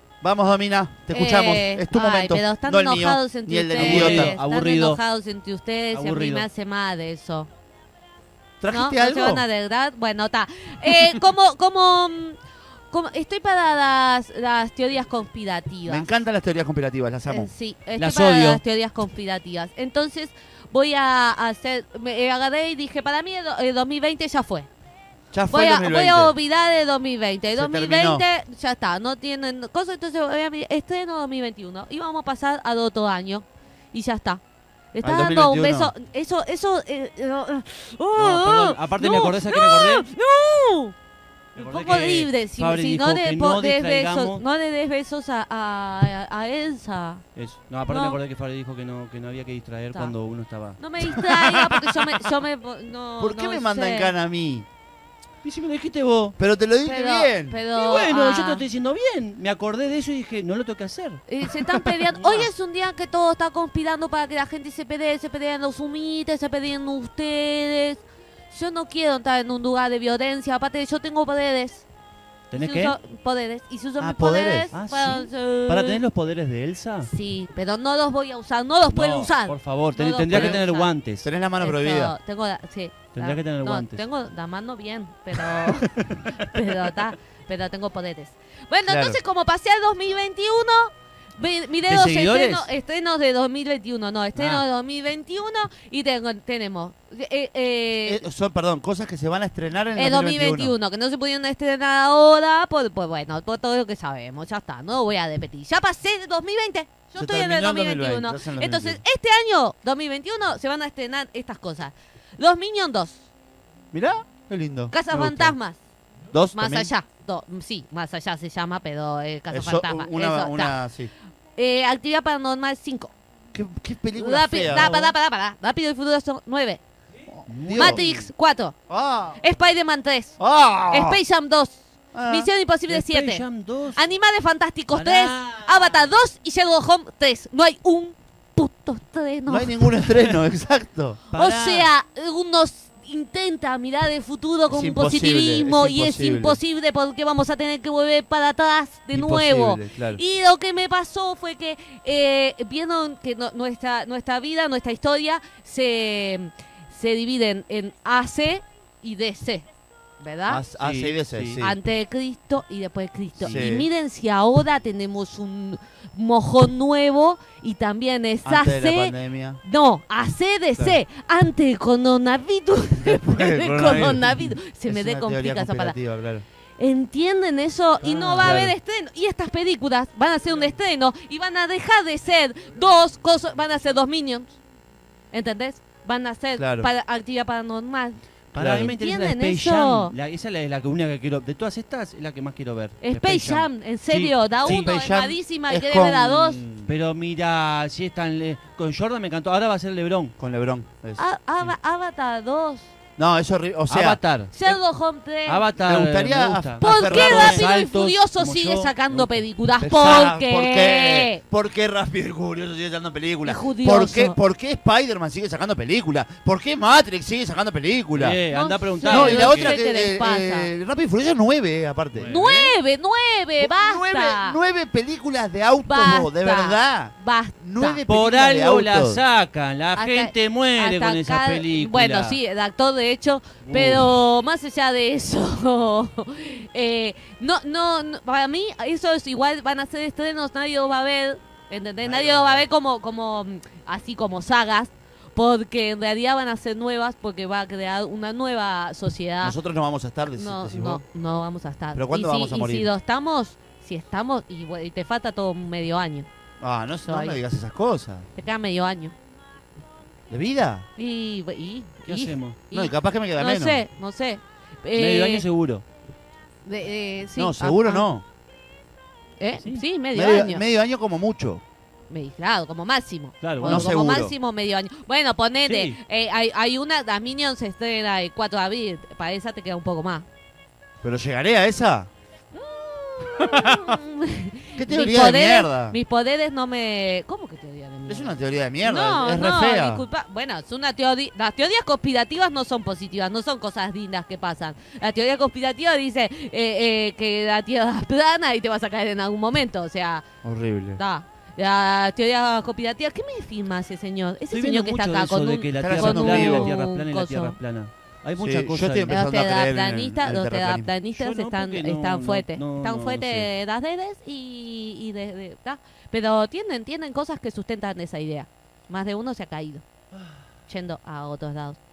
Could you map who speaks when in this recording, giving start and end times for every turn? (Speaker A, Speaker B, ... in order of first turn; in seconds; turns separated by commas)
Speaker A: 0.2-4.4, Speaker B: 1.1-7.5, Speaker C: 3.8-5.0, Speaker C: 5.9-6.5, Speaker A: 8.6-9.5, Speaker B: 8.7-12.4, Speaker B: 12.9-16.1, Speaker A: 15.9-17.5, Speaker B: 17.3-24.7, Speaker C: 17.9-18.6, Speaker A: 25.3-26.4, Speaker B: 25.5-34.4, Speaker A: 27.5-28.3, Speaker B: 34.9-40.9, Speaker A: 35.0-35.9, Speaker C: 38.1-40.1, Speaker C: 41.5-44.5, Speaker B: 41.6-47.2, Speaker C: 47.3-50.8, Speaker B: 47.9-48.2, Speaker B: 50.8-54.1, Speaker A: 51.1-52.0, Speaker A: 53.2-54.7, Speaker C: 55.4-56.4, Speaker A: 56.4-57.6, Speaker B: 56.8-58.6, Speaker C: 57.7-61.3, Speaker B: 61.3-71.9, Speaker C: 62.1-62.5, Speaker C: 72.5-73.0, Speaker B: 72.6-76.0, Speaker A: 74.0-74.7, Speaker C: 74.7-77.1, Speaker B: 77.0-80.9, Speaker C: 78.9-81.3, Speaker A: 80.3-80.6, Speaker A: 81.2-82.2, Speaker B: 81.6-98.2, Speaker C: 83.1-84.0, Speaker C: 85.6-86.2, Speaker A: 88.8-89.2, Speaker C: 91.9-92.5, Speaker A: 91.9-92.7, Speaker C: 94.3-94.7, Speaker A: 98.0-100.8, Speaker B: 100.0-113.3, Speaker A: 107.1-109.0, Speaker A: 113.9-115.0, Speaker B: 114.9-115.8, Speaker C: 115.1-115.6, Speaker A: 116.3-116.9, Speaker B: 116.5-120.8, Speaker A: 119.5-121.1, Speaker B: 121.6-123.1, Speaker A: 123.5-125.0, Speaker B: 124.2-126.8, Speaker C: 124.7-125.1, Speaker A: 127.3-128.3, Speaker C: 127.5-128.0, Speaker B: 127.7-128.8, Speaker A: 128.9-129.4, Speaker B: 129.4-139.9, Speaker A: 130.4-131.2, Speaker A: 132.1-132.5, Speaker C: 132.9-134.0, Speaker C: 134.9-136.1, Speaker A: 139.5-141.2, Speaker C: 140.1-140.3, Speaker C: 141.3-141.9, Speaker B: 141.3-159.7, Speaker A: 144.7-146.6, Speaker A: 149.1-150.2, Speaker B: 160.2-160.6, Speaker A: 160.5-161.8, Speaker C: 160.8-161.6, Speaker B: 161.6-176.0, Speaker A: 163.4-163.9, Speaker A: 168.4-169.6, Speaker A: 173.0-176.4, Speaker B: 176.8-184.6, Speaker C: 178.0-178.7, Speaker A: 178.1-178.8, Speaker B: 185.3-188.2, Speaker A: 186.6-186.9, Speaker C: 188.5-194.9, Speaker A: 188.6-188.9, Speaker B: 188.8-190.1, Speaker B: 193.0-196.6, Speaker A: 194.6-196.9, Speaker C: 196.9-200.4, Speaker A: 200.4-201.3, Speaker B: 201.2-202.9, Speaker A: 203.2-204.2, Speaker C: 203.9-204.8, Speaker B: 204.5-205.7, Speaker C: 205.4-209.5, Speaker A: 205.8-207.7, Speaker B: 206.8-211.4, Speaker A: 209.8-218.4, Speaker B: 213.4-214.4, Speaker C: 218.1-219.8, Speaker B: 218.5-220.7, Speaker A: 219.1-222.3, Speaker C: 222.1-222.8, Speaker B: 222.3-224.6, Speaker A: 223.6-229.2, Speaker B: 225.8-228.0, Speaker C: 228.1-232.4, Speaker B: 229.9-249.6, Speaker C: 233.6-234.2, Speaker C: 242.0-242.7, Speaker A: 249.4-251.0, Speaker B: 250.3-256.3, Speaker A: 251.9-252.9, Speaker A: 256.6-258.3, Speaker B: 257.1-257.4, Speaker B: 258.4-259.1, Speaker A: 260.3-260.9, Speaker B: 261.0-265.5, Speaker C: 262.1-262.6, Speaker A: 262.7-263.8, Speaker C: 264.9-265.9, Speaker B: 266.6-268.1, Speaker A: 267.4-268.2, Speaker B: 269.4-270.6, Speaker C: 269.6-269.9, Speaker A: 270.1-271.6, Speaker B: 272.1-280.3, Speaker C: 273.4-273.9, Speaker A: 273.6-274.4, Speaker C: 275.6-276.0, Speaker A: 281.0-282.1, Speaker B: 282.5-300.2, Speaker A: 283.2-284.0, Speaker A: 284.8-286.0, Speaker A: 288.1-290.1, Speaker A: 300.4-301.0, Speaker B: 301.0-307.6, Speaker C: 304.5-309.2, Speaker A: 305.8-306.7, Speaker A: 308.4-310.9, Speaker B: 309.1-319.9, Speaker C: 311.1-313.5, Speaker B: 320.7-321.8